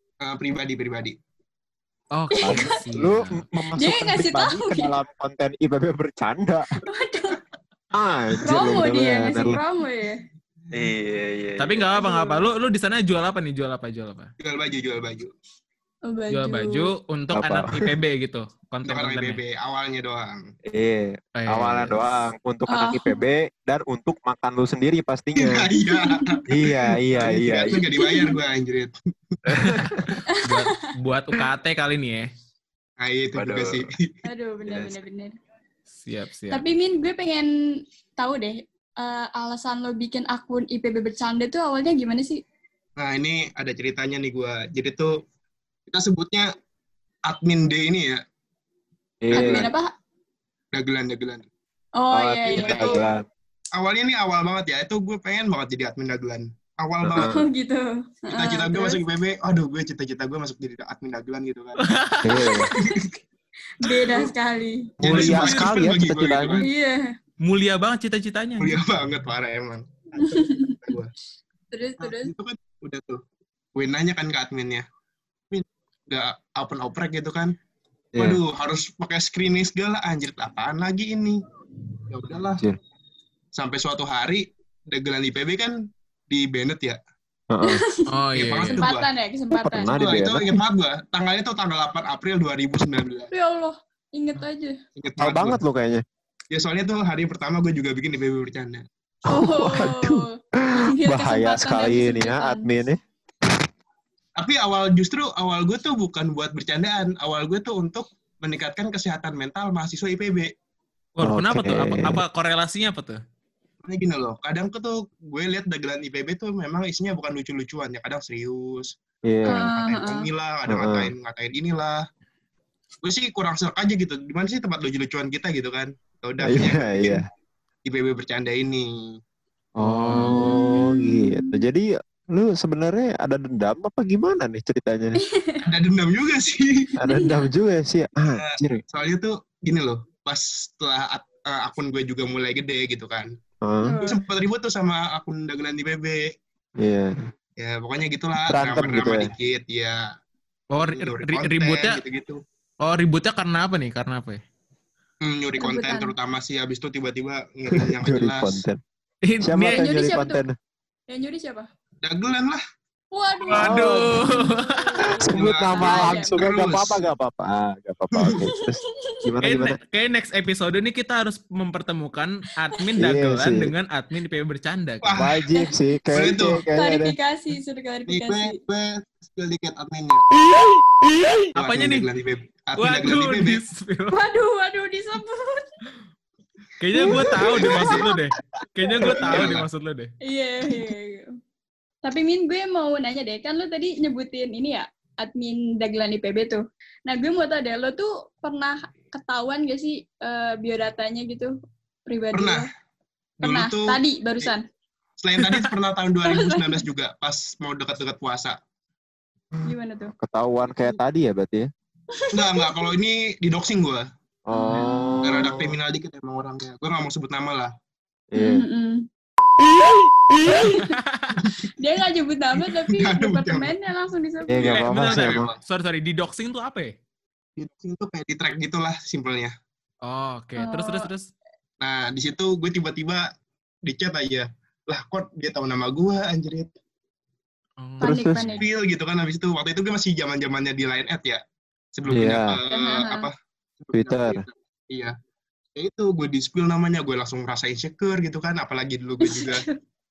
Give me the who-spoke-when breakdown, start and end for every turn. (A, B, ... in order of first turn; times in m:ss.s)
0:00.2-0:01.2 A
0:02.1-0:03.4 B
0:02.4-0:02.8 C
0:02.4-0:06.8 D
0:03.8-0:04.9 C
0:06.8-0:07.4 C
0:07.9-0:09.6 D
0:08.4-0:10.2 C
0:10.7-0:11.9 D
0:11.6-0:14.3 B
0:12.0-0:12.4 C
0:14.4-0:15.3 A
0:16.1-0:16.9 C
0:16.3-0:19.4 B
0:17.3-0:17.9 D
0:18.9-0:20.5 A
0:20.7-0:25.7 D
0:21.4-0:22.0 B
0:22.7-0:23.2 C
0:25.4-0:29.6 A
0:25.8-0:26.4 C
0:26.5-0:27.8 D
0:28.0-0:28.4 C
0:29.5-0:30.1 D
0:29.6-0:32.3 B
0:30.3-0:30.7 C
0:33.0-0:34.1 A
0:33.4-0:33.9 D
0:34.2-0:35.3 C
0:34.7-0:35.0 D
0:36.0-0:36.6 B
0:36.5-0:37.5 C
0:38.2-0:42.4 C
0:43.0-0:45.1 A
0:45.9-0:46.5 A
0:47.3-0:48.2 A
0:49.2-0:49.7 D
0:49.3-0:49.7 A
0:49.3-0:49.9 C
0:50.7-0:51.5 A
0:52.0-0:53.1 C
0:52.1-0:53.2 D
0:52.5-0:53.1 A
0:53.8-0:57.3 A
0:57.0-0:57.4 D
0:57.2-0:59.0 C
0:58.3-1:01.8 A
1:01.8-1:02.6 B
1:02.2-1:02.7 D
1:02.7-1:03.1 C
1:02.8-1:03.1 A
1:03.8-1:04.9 C
1:05.0-1:06.6 D
1:05.0-1:06.7 A
1:05.0-1:05.8 B
1:06.6-1:07.1 C
1:07.4-1:08.8 B
1:08.6-1:11.1 A
1:10.2-1:10.9 C
1:11.7-1:12.3 C
1:12.0-1:13.2 A
1:13.8-1:14.8 A
1:15.5-1:17.5 A
1:18.2-1:18.4 D
1:18.2-1:21.4 A
1:22.1-1:22.6 A
1:23.6-1:25.8 A
1:26.3-1:27.0 A
1:27.5-1:27.8 D
1:27.6-1:28.1 C
1:28.1-1:28.8 B
1:28.4-1:29.1 A
1:28.8-1:30.0 C
1:29.5-1:30.5 D
1:29.9-1:33.3 A
1:33.3-1:34.8 C
1:35.0-1:35.6 A
1:35.2-1:36.0 D
1:36.5-1:38.8 A
1:39.3-1:42.7 C
1:39.3-1:43.0 D
1:44.4-1:50.5 A
1:51.2-1:53.2 B
1:51.2-1:52.2 D
1:53.8-1:58.9 A
1:59.3-1:59.6 D
1:59.5-2:02.0 A
1:59.5-2:00.3 C
2:00.7-2:01.1 D
2:03.0-2:07.2 A
2:06.4-2:07.2 D
2:07.8-2:09.2 A
2:09.8-2:15.2 D
2:09.8-2:10.8 B
2:10.1-2:11.6 C
2:15.3-2:15.6 C
2:15.6-2:16.9 A
2:17.0-2:18.8 D
2:17.0-2:17.5 C
2:18.3-2:23.3 A
2:23.6-2:24.0 D
2:23.8-2:24.2 C
2:24.0-2:26.3 A
2:26.8-2:27.2 D
2:27.6-2:30.0 A
2:28.5-2:29.3 D
2:30.7-2:32.0 B
2:30.8-2:32.4 A
2:32.8-2:34.4 B
2:35.2-2:38.6 A
2:35.6-2:36.1 C
2:37.7-2:38.8 D
2:39.3-2:39.9 B
2:39.4-2:40.5 D
2:39.7-2:40.4 C
2:41.1-2:41.7 C
2:42.0-2:42.6 A
2:43.1-2:46.4 C
2:43.5-2:44.5 D
2:43.5-2:44.8 B
2:45.1-2:49.8 D
2:45.2-2:47.0 A
2:48.2-2:48.4 A
2:48.4-2:49.2 C
2:49.4-2:55.2 B
2:53.0-2:53.7 D
2:55.0-2:55.4 A
2:55.2-2:57.2 D
2:56.1-2:56.6 A
2:56.3-2:58.6 C
2:58.1-3:00.2 A
3:01.6-3:02.1 B
3:01.6-3:03.6 A
3:02.8-3:04.2 B
3:04.1-3:05.6 C
3:06.8-3:10.1 B
3:07.0-3:08.0 A
3:07.0-3:08.0 D
3:07.2-3:08.0 C
3:09.0-3:09.7 A
3:09.1-3:09.4 D
3:10.2-3:11.3 C
3:12.0-3:21.5 C
3:22.1-3:22.7 C
3:22.3-3:22.7 A
3:23.4-3:24.5 A
3:23.4-3:24.6 C
3:25.2-3:28.6 A
3:25.4-3:25.7 B
3:26.3-3:26.8 C
3:29.7-3:30.1 C
3:30.2-3:31.7 D
3:32.2-3:32.8 C
3:32.3-3:34.1 A
3:34.5-3:35.8 D
3:34.5-3:35.2 C
3:35.2-3:37.7 A
3:38.3-3:38.6 D
3:38.4-3:39.1 C
3:40.4-3:40.9 C
3:40.9-3:41.4 B
3:41.7-3:44.7 C
3:42.9-3:43.7 A
3:44.5-3:45.5 D
3:44.6-3:45.6 A
3:44.7-3:47.0 B
3:47.6-3:49.5 A
3:50.0-3:51.3 B
3:50.6-3:51.1 C
3:51.8-3:53.3 A
3:53.8-3:56.7 A
3:57.8-3:58.2 B
3:58.0-3:58.6 D
3:58.0-3:58.6 C
3:58.6-4:01.4 A
4:02.0-4:05.1 A
4:02.1-4:02.6 D
4:02.7-4:03.3 C
4:03.9-4:04.4 D
4:05.8-4:09.6 A
4:09.2-4:09.8 C